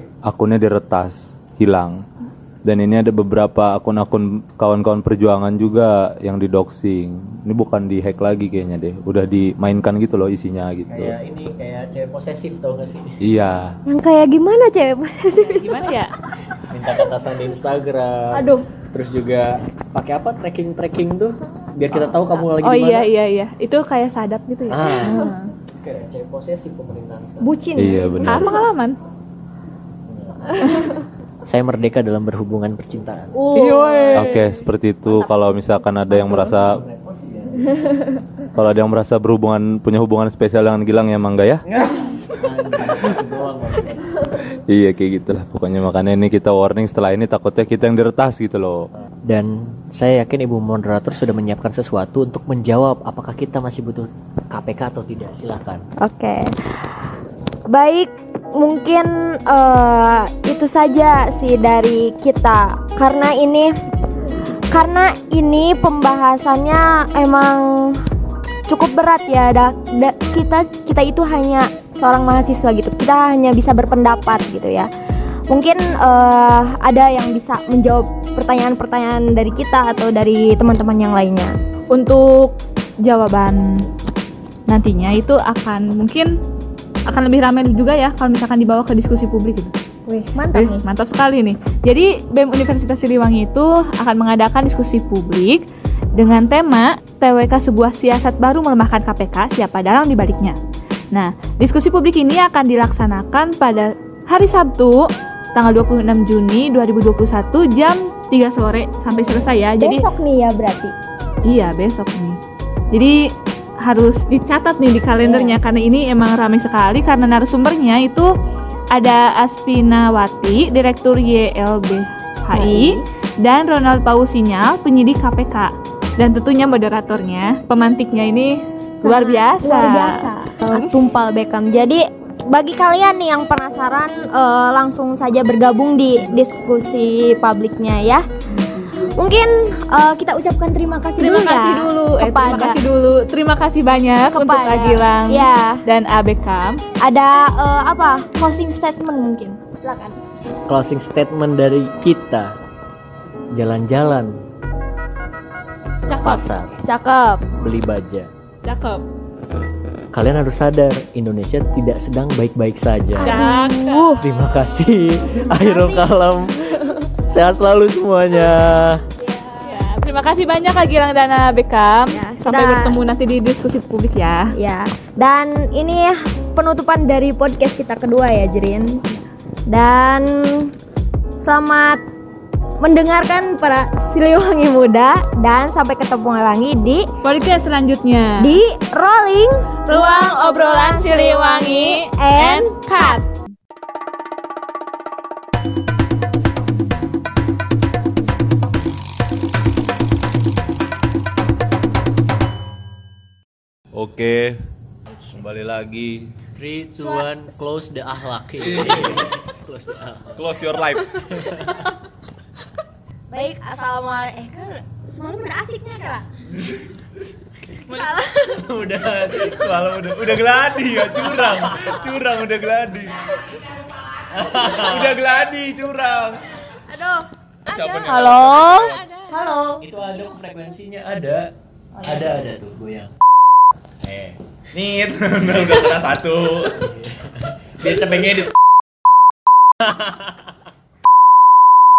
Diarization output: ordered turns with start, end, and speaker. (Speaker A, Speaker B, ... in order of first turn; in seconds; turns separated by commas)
Speaker A: 0.2-2.0, Speaker A: 2.6-11.2, Speaker B: 10.9-13.2, Speaker A: 13.2-13.8, Speaker C: 13.9-16.0, Speaker D: 15.4-16.1, Speaker B: 16.7-23.1, Speaker C: 18.3-18.7, Speaker D: 22.6-25.5, Speaker B: 24.7-28.4, Speaker C: 25.0-25.3, Speaker C: 27.4-28.4, Speaker A: 27.8-28.6, Speaker D: 28.2-29.0, Speaker B: 30.1-33.4, Speaker C: 33.3-34.5, Speaker D: 33.6-34.4, Speaker A: 34.1-36.8, Speaker B: 36.1-38.2, Speaker A: 38.5-41.6, Speaker B: 41.7-44.3, Speaker A: 44.5-48.9, Speaker B: 49.3-55.9, Speaker C: 56.0-57.0, Speaker C: 57.7-63.7, Speaker C: 64.7-68.0, Speaker C: 68.7-74.9, Speaker C: 75.5-81.6, Speaker D: 81.9-83.9, Speaker D: 84.7-86.4, Speaker D: 87.1-89.7, Speaker C: 90.1-90.8, Speaker D: 90.5-95.6, Speaker D: 96.2-100.6, Speaker D: 101.1-110.1, Speaker C: 109.8-110.9, Speaker D: 111.5-112.4, Speaker D: 112.9-118.3, Speaker C: 115.2-115.6, Speaker D: 118.9-131.0, Speaker C: 122.5-123.0, Speaker C: 129.0-138.3, Speaker C: 138.8-142.8, Speaker D: 141.2-146.8, Speaker C: 144.3-145.8, Speaker C: 147.0-150.2, Speaker B: 150.7-152.6, Speaker B: 153.5-154.4, Speaker D: 156.1-156.4, Speaker B: 156.2-156.8, Speaker C: 156.8-157.5, Speaker B: 157.6-158.3, Speaker D: 158.7-159.0, Speaker B: 160.1-163.5, Speaker C: 163.2-164.2, Speaker D: 163.2-164.3, Speaker B: 164.2-169.1, Speaker C: 165.4-166.1, Speaker C: 169.2-169.9, Speaker D: 169.7-174.5, Speaker C: 172.1-173.0, Speaker C: 174.6-180.7, Speaker C: 181.4-182.0, Speaker C: 182.8-187.1, Speaker D: 187.2-188.6, Speaker C: 188.4-193.2, Speaker D: 189.9-193.3, Speaker A: 203.9-204.6, Speaker A: 205.1-206.3, Speaker B: 206.5-210.6, Speaker A: 208.7-209.0, Speaker A: 210.3-211.4, Speaker B: 211.2-211.9, Speaker C: 213.3-216.3, Speaker C: 217.8-218.6, Speaker B: 218.4-220.1, Speaker A: 219.4-223.2, Speaker B: 221.0-222.2, Speaker B: 224.3-225.3, Speaker A: 224.7-226.4, Speaker C: 226.7-229.8, Speaker A: 227.7-228.9, Speaker D: 227.7-229.4, Speaker B: 229.8-233.1, Speaker B: 234.0-234.4, Speaker A: 234.7-236.9, Speaker B: 235.5-238.6, Speaker B: 239.8-240.3